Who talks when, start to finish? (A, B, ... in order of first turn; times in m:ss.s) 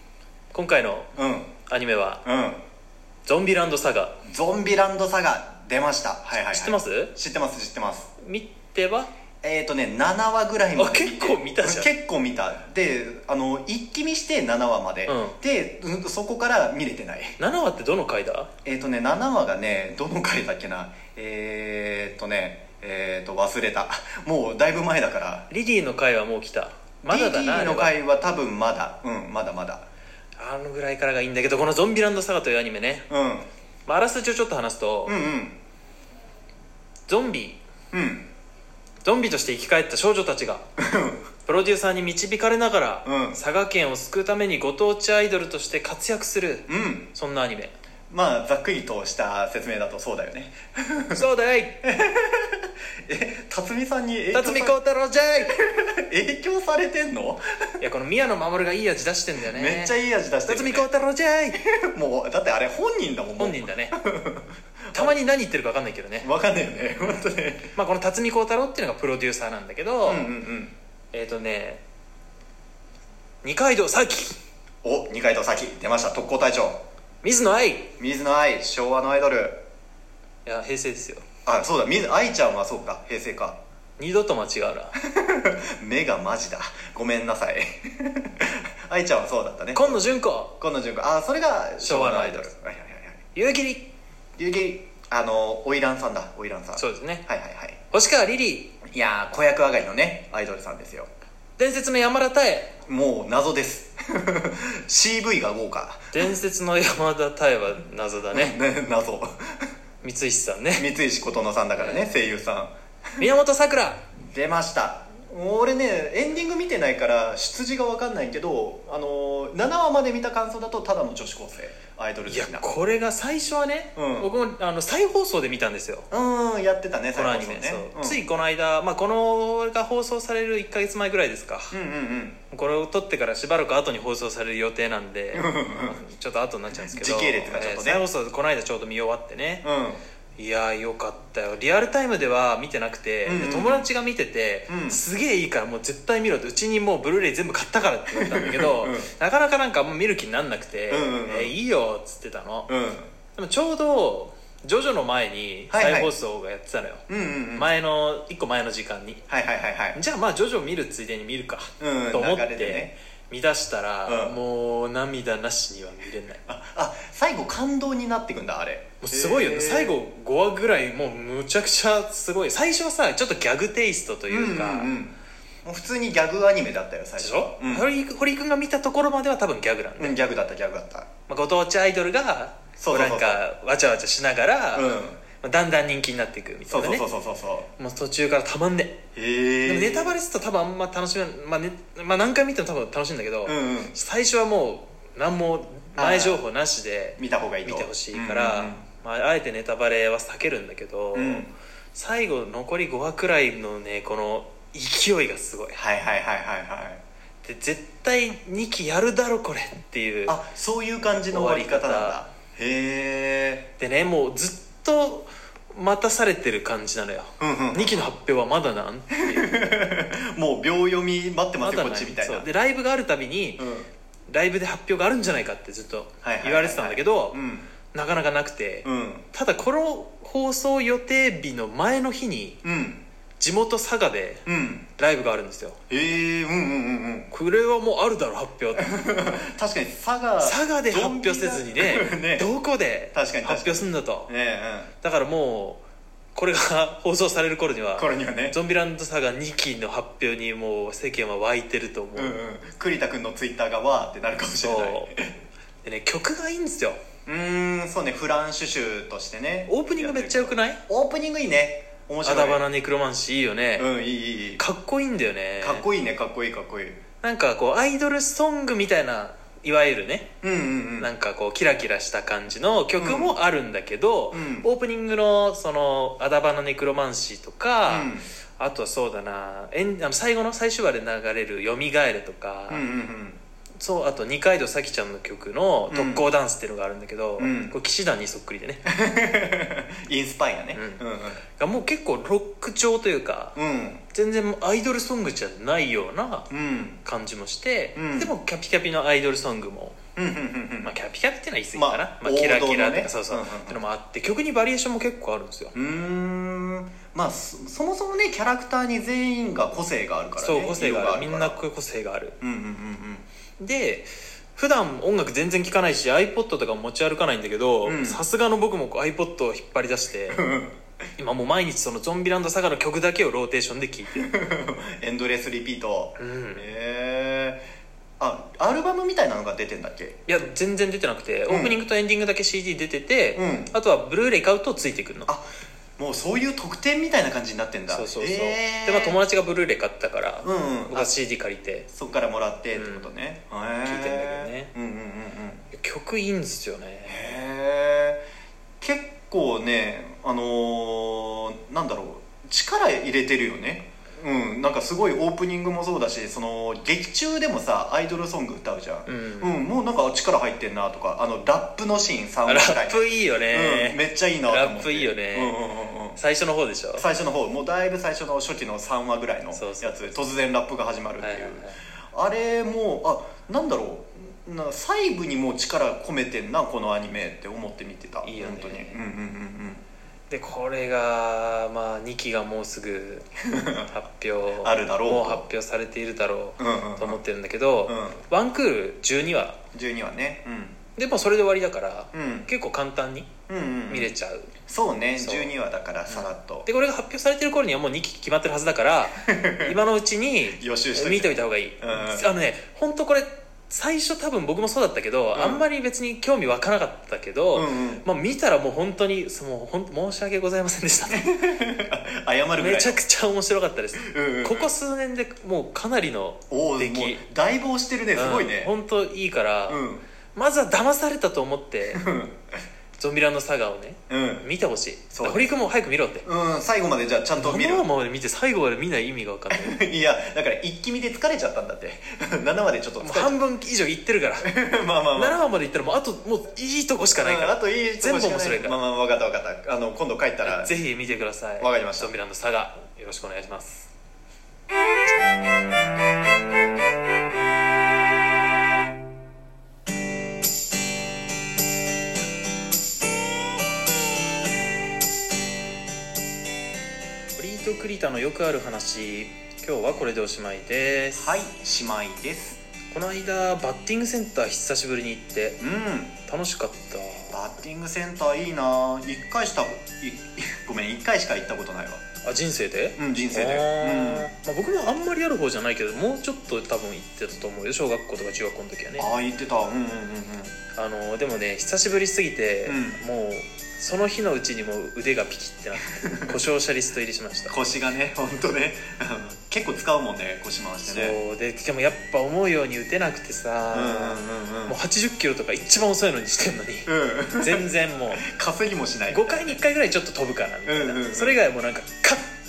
0:00.5-0:01.1 A
0:01.2-0:01.5 B
0:01.6-0:02.2 A
0:02.2-0:02.6 B
0:03.2-0:04.2 A
0:04.2-0:08.1 B
0:06.3-0:07.1 A
0:08.2-0:09.1 A
0:09.4-0:17.4 B
0:10.8-0:11.9 A
0:15.1-0:15.4 A
0:17.4-0:18.5 A
0:18.6-0:25.5 B
0:25.5-0:28.0 A
0:27.1-0:29.8 B
0:30.4-0:33.1 A
0:33.1-0:33.5 B
0:33.8-0:35.2 A
0:35.0-0:35.6 B
0:37.1-0:37.6 A
0:37.9-0:38.3 B
0:39.0-0:40.6 A
0:40.8-0:41.2 B
0:41.4-0:47.7 A
0:43.0-0:43.4 B
0:46.7-0:47.1 B
0:48.1-0:51.2 B
0:51.1-0:51.8 A
0:51.8-0:54.8 B
0:54.3-0:55.6 A
0:55.5-0:57.6 B
0:57.8-1:01.6 A
0:59.4-1:00.9 B
1:01.5-1:05.2 B
1:03.4-1:04.0 A
1:04.9-1:06.3 A
1:06.2-1:07.7 B
1:07.7-1:10.3 A
1:10.0-1:10.7 B
1:11.1-1:11.8 A
1:13.4-1:14.4 A
1:14.8-1:16.8 B
1:17.2-1:17.9 A
1:18.0-1:19.6 B
1:20.4-1:21.2 A
1:21.4-1:23.6 B
1:24.0-1:25.0 A
1:25.0-1:33.2 B
1:29.7-1:30.5 A
1:31.8-1:32.5 A
1:33.3-1:33.9 A
1:34.4-1:37.8 B
1:36.7-1:37.2 A
1:37.9-1:38.7 A
1:38.9-1:41.1 B
1:41.6-1:42.7 A
1:42.8-1:46.3 B
1:46.1-1:48.6 A
1:48.3-1:49.7 B
1:50.0-1:50.9 A
1:50.7-1:53.3 B
1:51.8-1:52.1 A
1:53.2-1:54.0 A
1:54.3-2:02.7 B
2:02.2-2:06.1 A
2:04.0-2:04.3 B
2:06.1-2:08.2 B
2:07.1-2:11.8 A
2:11.7-2:12.4 B
2:12.5-2:19.6 A
2:15.3-2:16.0 B
2:16.8-2:18.0 B
2:19.6-2:20.0 B
2:20.4-2:32.7 A
2:23.2-2:23.9 B
2:24.7-2:25.0 B
2:28.1-2:29.1 B
2:30.9-2:31.5 B
2:32.7-2:33.1 B
2:33.3-2:39.2 A
2:35.7-2:36.1 B
2:37.1-2:37.7 B
2:39.3-2:40.0 B
2:39.9-2:46.4 A
2:41.8-2:42.9 B
2:44.0-2:44.4 B
2:46.4-2:50.0 B
2:49.0-2:54.9 A
2:54.3-2:57.9 B
2:57.2-3:00.2 A
3:00.0-3:01.1 B
3:01.3-3:07.1 A
3:02.8-3:03.4 B
3:04.7-3:05.2 B
3:06.7-3:07.7 B
3:07.8-3:09.0 A
3:09.2-3:10.2 B
3:09.6-3:25.8 A
3:13.4-3:14.0 B
3:16.0-3:16.4 B
3:17.2-3:18.8 B
3:21.1-3:21.5 B
3:25.7-3:27.0 B
3:27.4-3:30.4 A
3:30.2-3:33.7 B
3:31.3-3:32.2 A
3:33.8-3:39.6 A
3:37.4-3:38.1 B
3:39.2-3:42.5 B
3:41.6-3:43.7 A
3:43.6-3:43.9 B
3:44.3-3:52.6 A
3:46.2-3:47.7 B
3:48.8-3:49.3 B
3:52.6-3:53.0 B
3:53.4-3:55.8 A
3:54.4-3:54.9 B
3:55.9-3:57.3 B
3:57.3-3:58.9 A
3:58.7-4:02.5 B
4:00.4-4:04.3 A
4:03.1-4:04.9 B
4:05.0-4:05.8 A
4:06.3-4:12.4 A
4:08.0-4:08.6 B
4:12.1-4:15.4 B
4:14.6-4:15.1 A
4:15.8-4:17.0 A
4:17.2-4:22.7 B
4:19.7-4:20.8 A
4:22.2-4:23.9 A
4:23.8-4:24.6 B
4:24.6-4:25.9 A
4:25.6-4:27.0 B
4:27.2-4:30.3 A
4:30.4-4:31.1 B
4:31.0-4:42.9 A
4:33.0-4:33.3 B
4:34.3-4:34.7 B
4:37.9-4:38.3 B
4:42.7-4:43.4 B
4:43.8-4:48.8 A
4:45.9-4:46.3 B
4:47.4-4:47.8 B
4:48.9-4:51.4 B
4:50.7-4:53.6 A
4:53.6-4:54.0 B
4:54.1-4:56.5 A
4:56.5-4:57.0 B
4:57.0-5:00.0 A
4:58.0-4:58.3 B
5:00.2-5:01.0 B
5:00.8-5:05.7 A
5:01.7-5:03.8 B
5:05.7-5:11.6 B
5:10.4-5:12.4 A
5:12.4-5:13.2 B
5:13.6-5:20.4 A
5:17.8-5:18.2 B
5:20.3-5:20.8 B
5:21.2-5:24.3 A
5:24.1-5:27.6 B
5:26.2-5:26.7 A
5:28.2-5:30.2 B
5:30.3-5:35.3 A
5:31.5-5:31.8 B
5:33.3-5:33.7 B
5:36.0-5:39.2 B
5:37.9-5:41.9 A
5:40.4-5:41.1 B
5:41.9-5:45.6 B
5:42.7-5:43.1 A
5:43.8-5:44.7 A
5:45.7-5:47.3 A
5:47.0-5:48.2 B
5:48.8-6:06.2 B
5:59.0-5:59.6 A
6:02.4-6:05.6 A
6:06.2-6:07.1 A
6:07.0-6:19.8 B
6:09.5-6:10.2 A
6:11.2-6:11.8 A
6:18.2-6:19.0 A
6:20.3-6:23.3 A
6:23.4-6:23.9 B
6:23.9-6:29.6 A
6:24.6-6:25.5 B
6:26.6-6:27.2 B
6:27.8-6:28.2 B
6:29.7-6:30.8 B
6:31.0-6:33.3 A
6:32.1-6:32.5 B
6:33.5-6:34.1 B
6:33.9-6:34.5 A
6:34.7-6:36.7 B
6:35.2-6:35.5 A
6:36.1-6:51.3 A
6:39.2-6:39.8 B
6:40.5-6:42.3 B
6:45.3-6:45.6 B
6:47.5-6:48.0 B
6:51.1-6:53.0 B
6:52.5-6:57.2 A
6:53.9-6:54.7 B
6:56.5-6:58.7 B
6:58.1-7:02.0 A
6:59.7-7:00.0 B
7:01.9-7:02.4 B
7:03.0-7:06.3 A
7:04.1-7:04.5 B
7:05.1-7:05.6 B
7:06.2-7:07.9 B
7:07.4-7:09.8 A
7:09.5-7:13.4 B
7:13.0-7:14.6 A
7:14.4-7:15.4 B
7:15.1-7:18.8 A
7:17.2-7:20.8 B
7:20.4-7:23.9 A
7:21.6-7:22.1 B
7:37.4-7:41.4 A
7:41.1-7:42.6 B
7:42.9-7:45.6 A
7:45.6-7:46.2 B
7:46.2-7:47.4 A
7:47.3-7:52.0 B
7:52.2-7:59.1 A
7:53.0-7:54.3 B
7:59.0-8:00.6 B
8:00.7-8:07.6 A
8:02.6-8:03.0 B
8:05.8-8:06.4 B
8:07.5-8:11.2 B
8:10.9-8:18.2 A
8:13.7-8:14.8 B
8:16.8-8:19.6 B
8:19.1-8:22.3 A
8:20.6-8:21.4 B